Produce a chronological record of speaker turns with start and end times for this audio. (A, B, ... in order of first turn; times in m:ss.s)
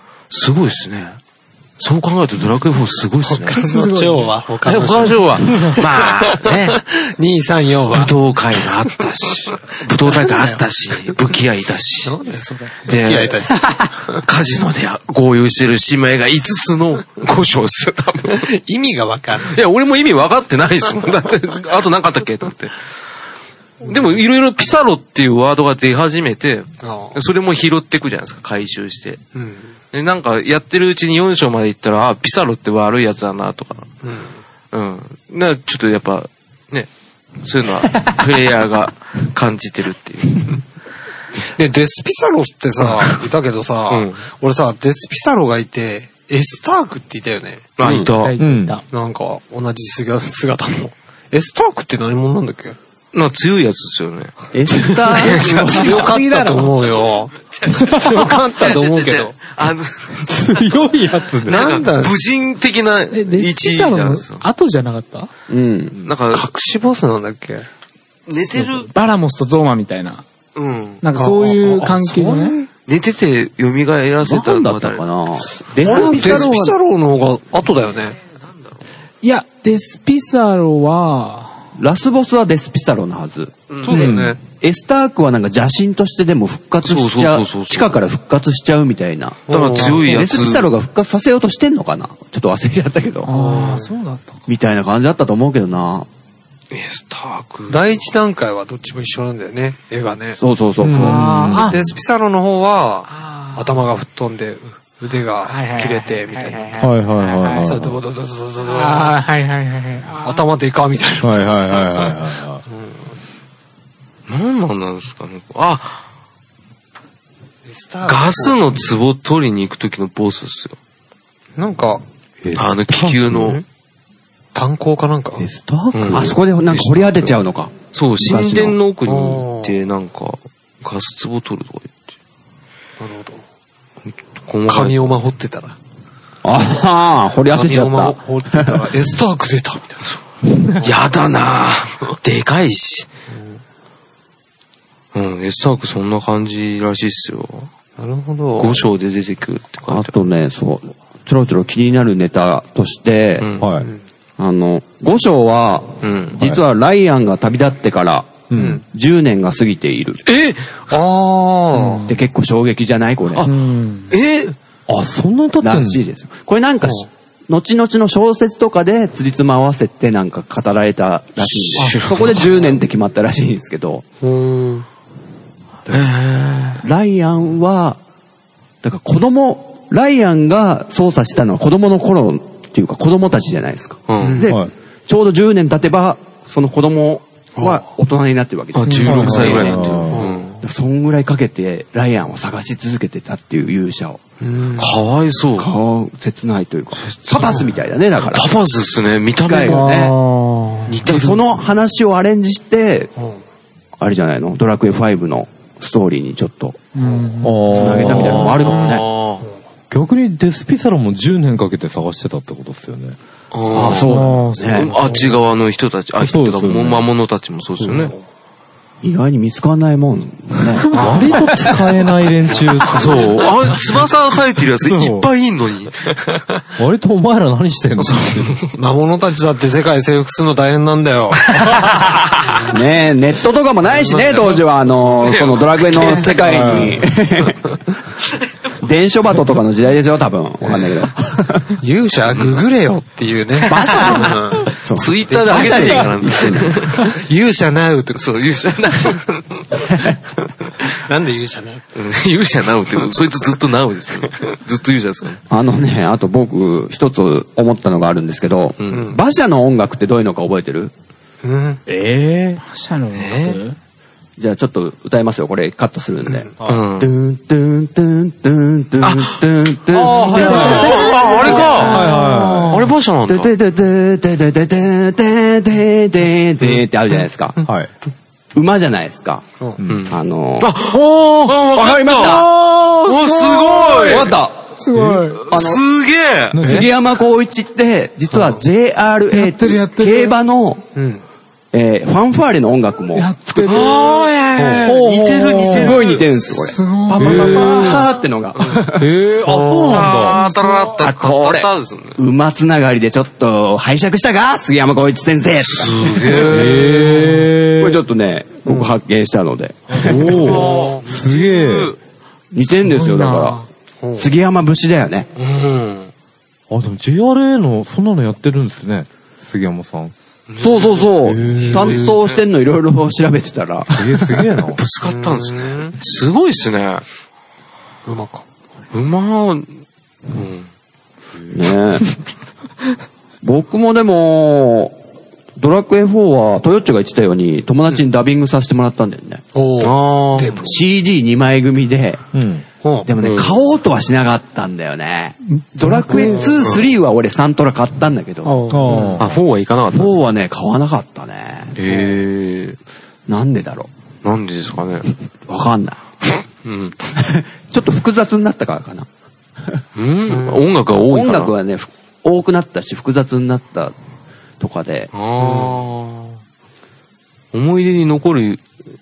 0:00.3-0:01.2 A
0:01.8-0:03.6 A
0:03.2-0:08.8 B
0:03.5-0:04.3 C
0:04.6-0:06.8 A
0:07.9-0:12.2 A
0:10.1-0:11.2 B
0:12.0-0:14.2 B
0:12.9-0:13.6 A
0:14.1-0:18.5 A
0:18.3-0:19.6 B
0:19.4-0:22.8 A
0:23.8-0:29.2 A
0:26.8-0:27.2 B
0:29.4-0:29.7 B
0:29.9-0:33.9 A
0:34.0-0:34.4 B
0:34.7-0:36.9 A
0:37.4-0:40.6 A
0:41.6-0:47.8 B
0:43.9-0:44.2 A
0:47.8-0:48.4 A
0:47.8-0:48.1 D
0:48.2-0:48.8 C
0:48.4-0:48.8 E
0:48.9-0:52.8 B
0:53.1-0:54.5 A
0:54.5-0:56.0 D
0:54.7-0:59.4 B
0:55.0-0:56.0 A
0:55.6-0:56.7 C
0:57.5-1:00.6 A
1:00.3-1:01.8 E
1:01.4-1:04.4 A
1:01.5-1:02.2 B
1:03.1-1:05.3 C
1:05.5-1:06.0 D
1:06.0-1:06.5 A
1:06.3-1:07.7 B
1:08.3-1:08.9 A
1:08.4-1:10.2 C
1:10.6-1:11.1 A
1:11.0-1:12.6 C
1:11.2-1:12.7 B
1:12.9-1:15.1 A
1:14.2-1:16.8 D
1:15.8-1:18.2 B
1:16.0-1:16.4 A
1:19.2-1:21.6 C
1:21.8-1:33.3 D
1:23.7-1:24.1 A
1:23.8-1:24.4 B
1:23.9-1:24.4 E
1:26.8-1:28.0 A
1:29.5-1:30.3 B
1:29.5-1:30.7 A
1:29.8-1:30.2 C
1:33.3-1:34.4 C
1:33.4-1:33.9 B
1:34.5-1:36.1 D
1:36.7-1:38.0 A
1:37.7-1:40.4 B
1:40.4-1:41.3 D
1:40.8-1:41.8 E
1:41.0-1:41.9 C
1:41.5-1:46.9 B
1:45.5-1:47.7 C
1:46.8-1:48.0 E
1:47.6-1:49.2 B
1:48.6-1:50.4 C
1:50.2-1:52.2 B
1:51.2-1:52.6 E
1:52.7-1:53.0 B
1:54.3-1:56.0 A
1:57.6-1:58.6 B
1:58.0-2:00.8 A
2:01.6-2:02.0 B
2:02.4-2:03.6 E
2:02.6-2:03.6 A
2:04.5-2:05.4 B
2:05.4-2:06.4 E
2:05.9-2:12.1 A
2:06.1-2:08.8 D
2:09.1-2:09.8 B
2:13.0-2:13.4 B
2:14.1-2:15.0 A
2:14.7-2:15.8 B
2:16.4-2:18.8 D
2:17.5-2:20.2 B
2:20.8-2:23.1 A
2:25.1-2:27.7 A
2:28.0-2:28.9 B
2:28.6-2:30.2 A
2:29.9-2:33.5 D
2:33.4-2:33.7 A
2:33.6-2:33.9 E
2:34.4-2:40.2 D
2:36.0-2:36.4 A
2:38.5-2:38.8 E
2:38.6-2:38.8 B
2:40.3-2:40.8 A
2:40.9-2:42.0 B
2:41.7-2:42.2 C
2:42.0-2:43.5 D
2:43.3-2:43.6 A
2:43.4-2:44.1 C
2:44.1-2:44.6 A
2:44.9-2:46.0 E
2:45.6-2:54.0 D
2:51.4-2:52.8 A
2:54.2-2:54.9 B
2:55.9-2:56.1 D
2:55.9-2:56.8 A
2:56.8-2:58.0 D
2:58.8-3:10.0 D
3:04.1-3:04.5 A
3:04.2-3:04.5 B
3:04.5-3:04.7 E
3:07.6-3:07.8 B
3:08.7-3:10.6 A
3:08.8-3:09.2 C
3:09.0-3:10.3 E
3:10.1-3:10.5 B
3:10.6-3:14.2 D
3:14.4-3:15.0 B
3:14.8-3:15.7 A
3:15.6-3:18.5 D
3:17.0-3:20.0 A
3:19.4-3:20.2 D
3:19.6-3:21.0 C
3:20.9-3:21.4 A
3:21.0-3:23.1 D
3:24.0-3:26.8 D
3:27.0-3:28.1 C
3:27.4-3:28.5 E
3:27.7-3:29.1 D
3:27.9-3:29.5 A
3:29.9-3:33.2 E
3:33.5-3:38.2 A
3:33.7-3:35.0 D
3:34.0-3:34.9 C
3:36.2-3:37.1 E
3:39.0-3:41.3 D
3:40.9-3:43.5 E
3:40.9-3:41.5 A
3:42.5-3:43.4 B
3:42.9-3:46.3 A
3:44.8-3:45.3 E
3:46.8-3:48.6 E
3:48.0-3:48.7 A
3:48.6-3:52.0 B
3:52.6-3:57.8 D
3:53.9-3:54.6 B
3:55.2-3:56.7 A
3:56.4-3:57.0 E
3:58.8-4:01.8 D
4:01.8-4:04.7 B
4:03.7-4:06.8 D
4:03.8-4:04.1 A
4:04.9-4:07.2 A
4:05.3-4:08.3 B
4:08.1-4:09.8 A
4:10.9-4:11.8 B
4:12.0-4:15.4 A
4:15.5-4:20.9 D
4:18.8-4:19.1 A
4:18.9-4:19.2 B
4:21.4-4:21.8 B
4:21.9-4:22.6 E
4:22.6-4:23.8 C
4:23.2-4:23.6 A
4:24.4-4:32.7 D
4:26.7-4:27.1 A
4:29.0-4:29.4 A
4:29.9-4:32.9 E
4:30.3-4:32.2 A
4:31.8-4:32.7 C
4:32.7-4:33.5 A
4:33.3-4:37.6 D
4:37.6-4:37.9 E
4:38.5-4:39.5 D
4:39.8-4:40.1 E
4:39.9-4:42.5 A
4:40.1-4:40.8 D
4:41.5-4:42.5 D
4:42.2-4:45.5 C
4:43.0-4:44.3 A
4:44.0-4:44.7 D
4:44.9-4:45.2 E
4:45.5-4:45.8 D
4:45.5-4:46.6 A
4:46.5-4:46.9 E
4:46.6-4:50.9 D
4:49.3-4:50.4 C
4:51.0-4:51.2 B
4:51.7-4:53.9 D
4:53.1-4:54.8 C
4:53.6-4:56.3 A
4:54.6-4:54.9 B
4:54.8-4:56.0 E
4:55.7-4:59.1 D
4:56.5-4:58.0 C
4:57.2-4:58.0 E
4:58.9-5:00.4 E
4:59.8-5:02.2 A
4:59.9-5:01.0 C
5:01.0-5:06.9 D
5:05.7-5:07.2 A
5:06.2-5:08.0 E
5:07.8-5:10.6 D
5:08.7-5:08.9 B
5:09.9-5:12.0 E
5:10.1-5:12.0 A
5:10.6-5:11.0 B
5:12.5-5:13.6 D
5:12.9-5:13.6 C
5:14.0-5:14.3 B
5:14.2-5:15.3 D
5:15.4-5:16.1 A
5:16.7-5:20.1 E
5:20.5-5:22.4 A
5:20.6-5:24.4 D
5:21.2-5:21.9 E
5:23.9-5:24.8 E
5:24.8-5:27.0 A
5:25.0-5:26.0 B
5:28.1-5:28.4 B
5:28.9-5:29.7 A
5:30.3-5:30.7 A
5:31.5-5:32.1 D
5:33.4-5:35.0 D
5:35.6-5:39.4 D
5:39.5-5:40.8 B
5:39.8-5:40.6 A
5:40.6-5:42.2 D
5:42.3-5:42.6 E
5:42.8-5:43.1 B
5:43.0-5:48.7 D
5:43.2-5:43.6 A
5:45.5-5:46.5 C
5:48.4-5:49.2 C
5:48.7-5:49.4 E
5:48.9-5:49.2 B
5:49.2-5:50.2 A
5:49.9-5:52.1 D
5:51.8-5:52.8 A
5:53.3-5:53.9 D
5:54.2-5:55.1 A
5:55.5-5:56.4 D
5:56.6-5:57.0 A
5:57.1-5:59.1 D
6:00.0-6:01.5 A
6:00.3-6:00.6 B
6:01.0-6:03.9 D
6:04.6-6:05.1 D
6:05.1-6:06.3 A
6:05.4-6:05.8 B
6:07.5-6:08.6 A